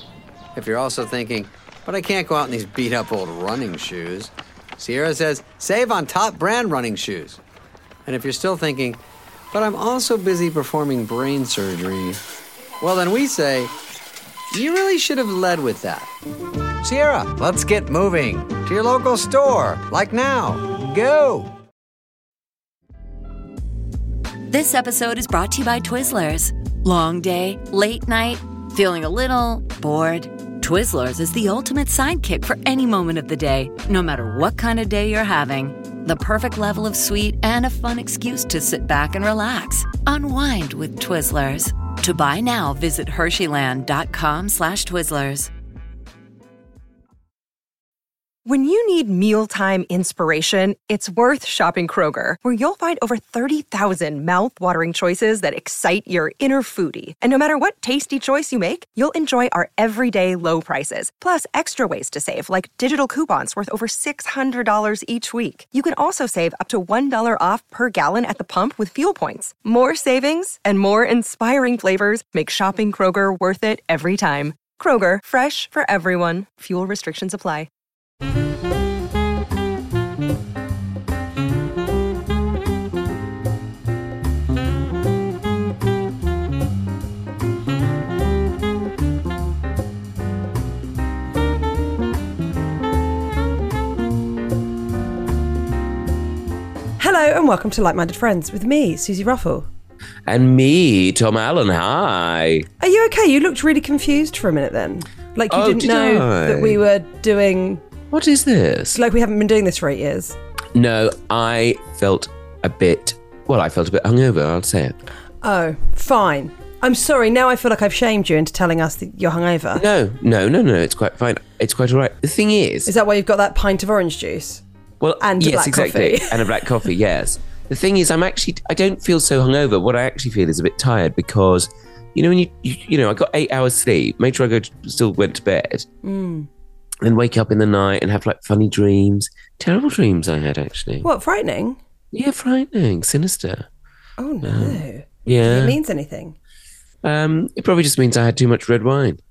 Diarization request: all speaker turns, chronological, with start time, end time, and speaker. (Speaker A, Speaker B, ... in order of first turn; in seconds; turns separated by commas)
Speaker A: 0.6-7.4, Speaker A: 8.1-9.0, Speaker A: 9.5-12.2, Speaker A: 12.8-13.7, Speaker A: 14.5-16.1, Speaker A: 16.8-21.5, Speaker B: 24.5-45.5, Speaker C: 48.5-77.7, Speaker D: 97.0-99.7, Speaker E: 100.3-102.7, Speaker D: 102.8-107.8, Speaker E: 105.5-106.8, Speaker E: 108.1-109.0, Speaker D: 108.9-110.4, Speaker E: 110.8-115.0, Speaker D: 115.4-119.8, Speaker E: 119.8-122.9, Speaker D: 122.9-124.6, Speaker E: 125.0-135.9, Speaker D: 125.2-126.7, Speaker D: 136.0-136.5, Speaker E: 137.0-141.1, Speaker D: 141.0-141.8, Speaker E: 142.1-143.7, Speaker D: 144.2-146.4, Speaker E: 144.4-145.8, Speaker E: 147.0-149.2